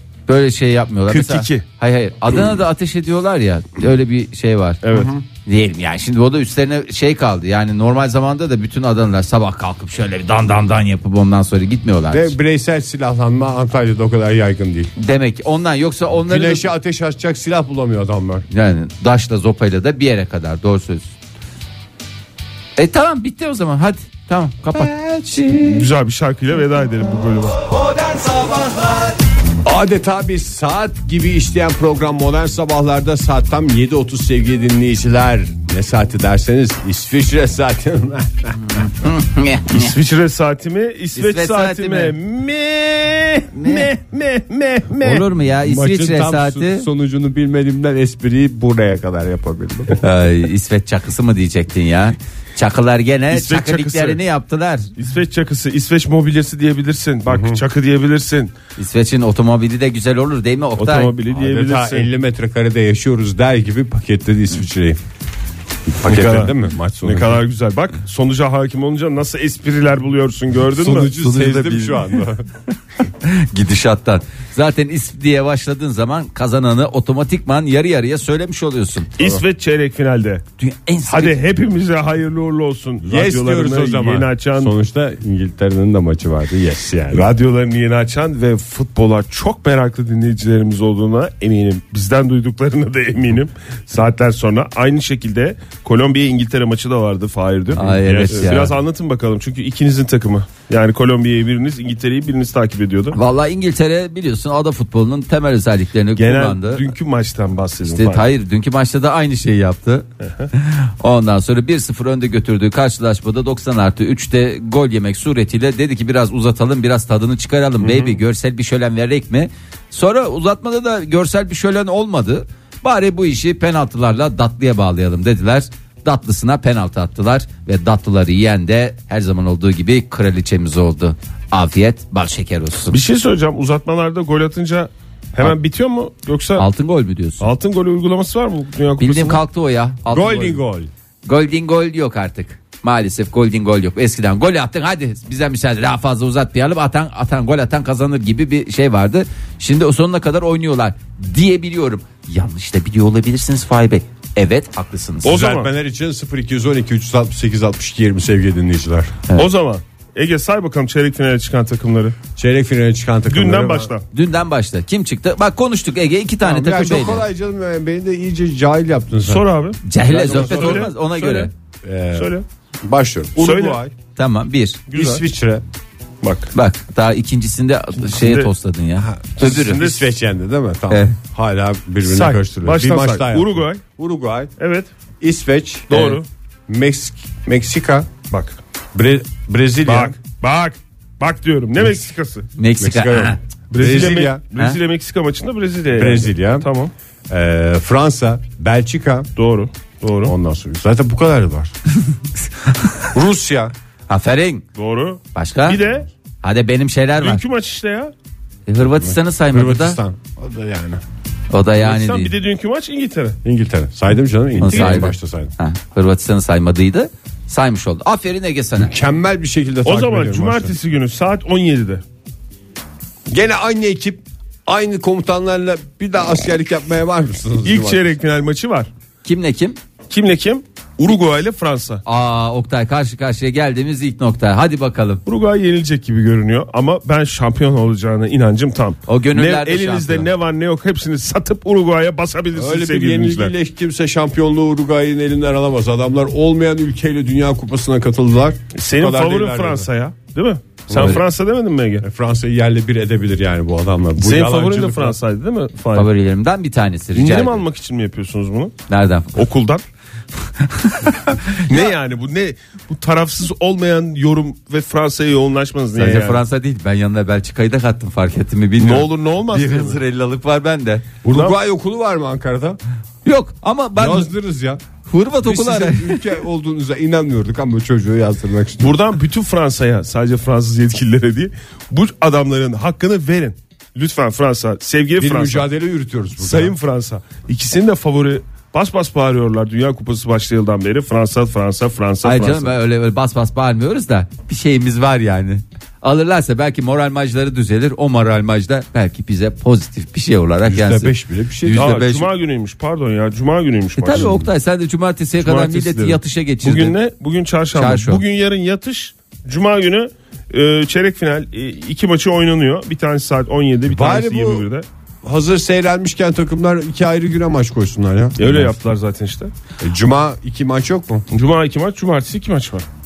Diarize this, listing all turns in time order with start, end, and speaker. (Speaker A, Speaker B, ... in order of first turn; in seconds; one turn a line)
Speaker A: 0.3-4.8
Speaker B: 1.1-1.6
Speaker B: 4.8-5.1
Speaker C: 4.9-5.2
Speaker A: 5.5-12.3
Speaker C: 12.1-14.9
Speaker A: 15.0-16.7
Speaker C: 16.2-18.5
Speaker A: 18.5-21.1
Speaker A: 22.8-25.5
Speaker C: 24.7-25.8
Speaker B: 25.6-27.6
Speaker C: 28.2-28.6
Speaker C: 29.6-38.6
Speaker A: 38.7-39.9
Speaker B: 39.7-45.3
Speaker A: 41.2-42.1
Speaker A: 43.5-43.9
Speaker A: 45.0-46.9
Speaker C: 45.6-50.0
Speaker A: 50.0-54.9
Speaker B: 53.3-54.2
Speaker B: 55.0-58.5
Speaker C: 57.3-57.6
Speaker A: 58.8-61.1
Speaker B: 60.8-62.1
Speaker C: 61.3-65.0
Speaker C: 65.9-67.4
Speaker B: 66.0-71.1
Speaker C: 70.7-72.5
Speaker A: 71.2-72.2
Speaker A: 73.1-79.1
Speaker B: 79.2-80.4
Speaker C: 79.2-79.4
Speaker A: 80.6-81.4
Speaker B: 81.1-84.7
Speaker C: 83.0-87.3
Speaker B: 87.1-103.2
Speaker A: 97.8-98.7
Speaker A: 103.1-106.9
Speaker B: 106.2-108.3
Speaker A: 107.8-133.0
Speaker B: 110.2-110.5
Speaker B: 117.8-118.2
Speaker B: 132.9-136.7
Speaker A: 136.6-137.5
Speaker B: 137.4-139.4
Speaker A: 139.0-140.6
Speaker C: 140.1-140.9
Speaker A: 141.2-155.3
Speaker B: 155.2-155.7
Speaker C: 155.2-159.2
Speaker B: 159.4-162.2
Speaker C: 162.4-163.9
Speaker B: 163.3-164.1
Speaker A: 164.1-167.2
Speaker C: 166.4-169.5
Speaker B: 169.3-171.5
Speaker A: 169.8-171.5
Speaker C: 170.1-170.9
Speaker C: 171.8-172.3
Speaker B: 172.2-172.4
Speaker C: 172.8-173.9
Speaker B: 173.4-173.8
Speaker A: 174.2-174.8
Speaker B: 174.9-175.2
Speaker C: 174.9-175.6
Speaker B: 176.2-176.5
Speaker A: 176.5-179.8
Speaker B: 178.1-178.5
Speaker C: 179.2-184.5
Speaker B: 179.4-180.1
Speaker B: 182.1-183.9
Speaker B: 184.6-184.9
Speaker C: 185.2-185.9
Speaker B: 185.9-186.3
Speaker A: 185.9-186.2
Speaker C: 186.7-188.1
Speaker B: 188.3-188.6
Speaker C: 188.9-190.2
Speaker B: 189.9-192.5
Speaker A: 192.6-193.4
Speaker C: 192.8-194.4
Speaker B: 193.7-196.9
Speaker C: 195.9-196.7
Speaker C: 197.3-199.3
Speaker B: 199.4-200.3
Speaker C: 200.2-201.7
Speaker C: 203.1-203.7
Speaker A: 204.1-204.6
Speaker B: 204.8-206.1
Speaker A: 205.3-205.8
Speaker A: 206.4-207.4
Speaker B: 207.2-208.1
Speaker A: 208.7-210.0
Speaker C: 208.8-211.0
Speaker A: 211.5-212.3
Speaker B: 211.8-213.4
Speaker C: 213.4-215.5
Speaker B: 214.6-215.1
Speaker A: 214.6-218.9
Speaker C: 218.8-220.8
Speaker B: 219.8-222.0
Speaker C: 223.3-228.0
Speaker B: 227.7-228.9
Speaker A: 229.2-229.8
Speaker B: 230.1-232.0
Speaker A: 232.1-235.2
Speaker B: 235.3-243.5
Speaker A: 239.1-240.3
Speaker C: 242.5-249.9
Speaker B: 248.8-252.1
Speaker C: 250.9-251.2
Speaker C: 252.0-255.2
Speaker B: 254.2-256.1
Speaker A: 255.9-257.6
Speaker B: 257.1-258.8
Speaker A: 258.9-259.4
Speaker B: 259.4-259.8
Speaker A: 260.6-261.6
Speaker B: 261.5-266.4
Speaker A: 266.0-271.1
Speaker B: 268.8-270.0
Speaker C: 271.2-272.8
Speaker B: 271.3-271.6
Speaker A: 273.2-274.3
Speaker C: 274.0-274.8
Speaker A: 275.1-276.3
Speaker C: 275.4-279.0
Speaker B: 278.8-285.7
Speaker C: 285.2-286.8
Speaker B: 286.4-292.7
Speaker A: 292.2-302.3
Speaker C: 300.7-302.0
Speaker B: 301.7-304.4
Speaker A: 304.0-307.0
Speaker C: 304.1-304.4
Speaker B: 305.4-314.9
Speaker A: 307.7-308.2
Speaker C: 313.9-314.7
Speaker C: 315.2-318.8
Speaker B: 318.4-319.5
Speaker C: 319.8-321.2
Speaker B: 321.3-322.9